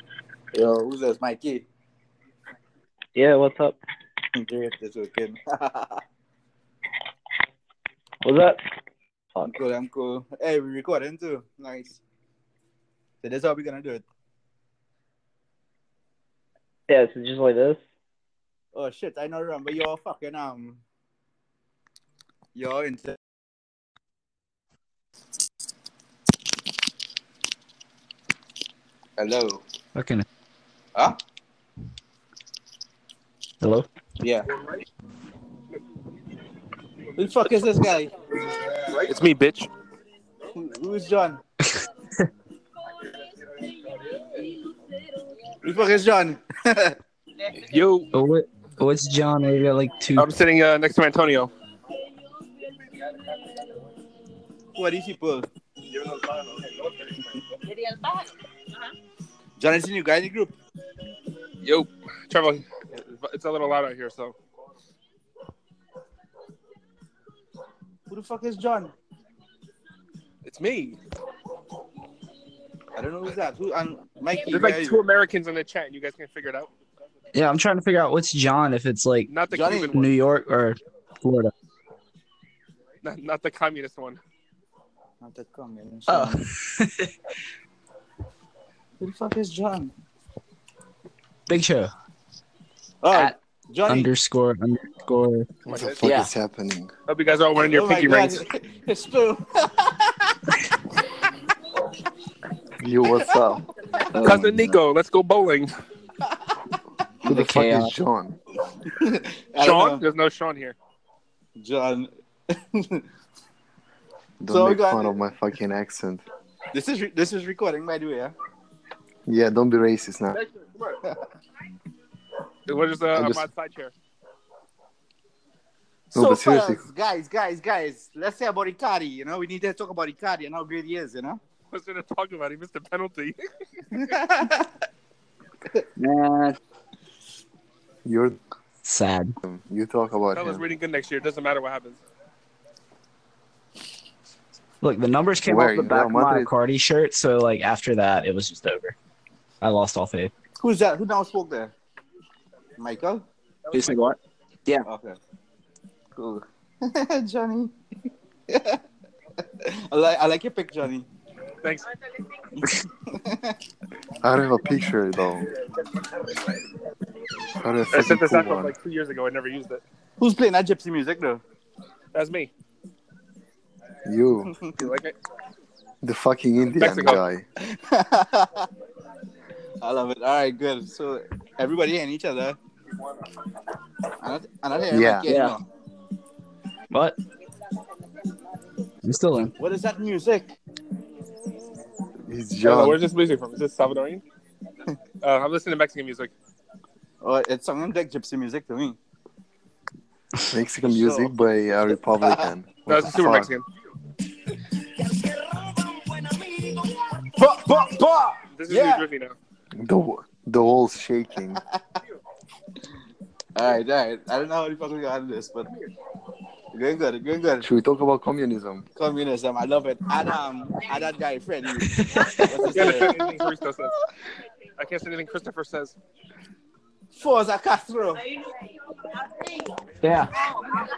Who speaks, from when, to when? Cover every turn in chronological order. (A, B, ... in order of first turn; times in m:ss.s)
0:00.5-0:01.7 A
0:03.2-0:03.8 B
0:04.4-0:06.0 A
0:08.2-0:08.6 B
0:09.5-0:12.0 A
0:13.2-0:14.0 A
0:16.9-0:17.8 B
0:18.8-0:20.8 A
0:22.6-0:23.2 A
0:29.2-0:29.6 A
0:30.0-0:30.2 C
0:33.6-0:33.9 C
0:34.2-0:34.5 A
0:37.2-0:38.1 A
0:38.9-0:39.7 D
0:40.5-0:41.4 A
0:41.7-0:42.3 C
0:45.6-0:47.0 A
0:47.6-0:48.1 D
0:48.1-0:50.3 C
0:50.2-0:51.5 D
0:54.8-0:55.5 A
0:59.6-1:00.6 A
1:01.6-1:04.4 D
1:08.1-1:08.9 A
1:10.4-1:11.0 D
1:13.0-1:15.0 A
1:14.5-1:16.7 D
1:17.3-1:19.3 C
1:19.3-1:20.1 D
1:19.5-1:20.0 A
1:19.9-1:21.5 C
1:23.0-1:24.2 D
1:25.2-1:26.4 A
1:26.1-1:27.1 C
1:29.0-1:29.9 A
1:31.5-1:31.9 C
1:33.0-1:34.1 A
1:33.9-1:35.5 C
1:35.7-1:36.0 D
1:35.7-1:36.9 E
1:36.0-1:36.3 C
1:37.1-1:38.4 D
1:37.6-1:40.4 A
1:42.8-1:43.7 E
1:44.1-1:44.8 C
1:44.2-1:45.7 D
1:47.2-1:48.4 E
1:47.2-1:47.9 C
1:48.9-1:50.0 A
1:49.6-1:50.8 D
1:51.6-1:53.0 A
1:54.4-1:56.2 E
1:54.5-1:55.2 A
1:56.7-1:58.3 A
1:59.3-2:00.4 E
2:00.9-2:01.2 A
2:02.7-2:03.9 D
2:03.1-2:03.5 E
2:06.1-2:06.8 E
2:06.1-2:11.4 A
2:11.7-2:14.2 D
2:13.9-2:14.7 A
2:16.0-2:16.6 C
2:18.0-2:18.4 E
2:18.8-2:19.4 C
2:19.4-2:20.6 E
2:20.3-2:22.0 D
2:24.8-2:29.0 C
2:25.4-2:26.5 E
2:29.6-2:30.3 C
2:30.6-2:31.8 A
2:32.8-2:33.3 A
2:33.7-2:34.9 C
2:34.9-2:35.2 A
2:36.2-2:37.7 A
2:38.5-2:38.8 A
2:39.5-2:41.1 A
2:41.6-2:41.9 D
2:42.6-2:43.6 A
2:44.2-2:45.5 E
2:47.6-2:48.7 E
2:47.9-2:49.8 D
2:50.2-2:51.4 A
2:52.1-2:52.5 D
2:54.0-2:54.5 E
2:54.5-2:54.9 A
2:54.8-2:55.2 D
2:56.0-2:57.4 E
2:56.8-2:57.2 D
2:57.6-2:58.7 A
2:59.8-3:02.6 A
3:04.2-3:05.6 A
3:04.9-3:05.3 E
3:05.3-3:05.6 C
3:06.9-3:07.2 C
3:09.0-3:09.6 C
3:09.6-3:10.5 A
3:12.3-3:13.0 E
3:12.6-3:14.2 D
3:15.2-3:16.3 D
3:17.2-3:19.0 A
3:20.5-3:23.5 E
3:20.9-3:21.3 A
3:22.2-3:22.5 A
3:22.9-3:23.7 D
3:25.0-3:29.1 A
3:28.6-3:29.4 D
3:29.8-3:31.6 E
3:33.6-3:35.7 A
3:36.7-3:37.7 A
3:37.6-3:38.8 E
3:39.0-3:43.2 A
3:41.8-3:42.5 C
3:42.7-3:44.0 D
3:43.1-3:43.4 E
3:44.8-3:46.0 D
3:47.1-3:48.4 A
3:50.0-3:50.3 C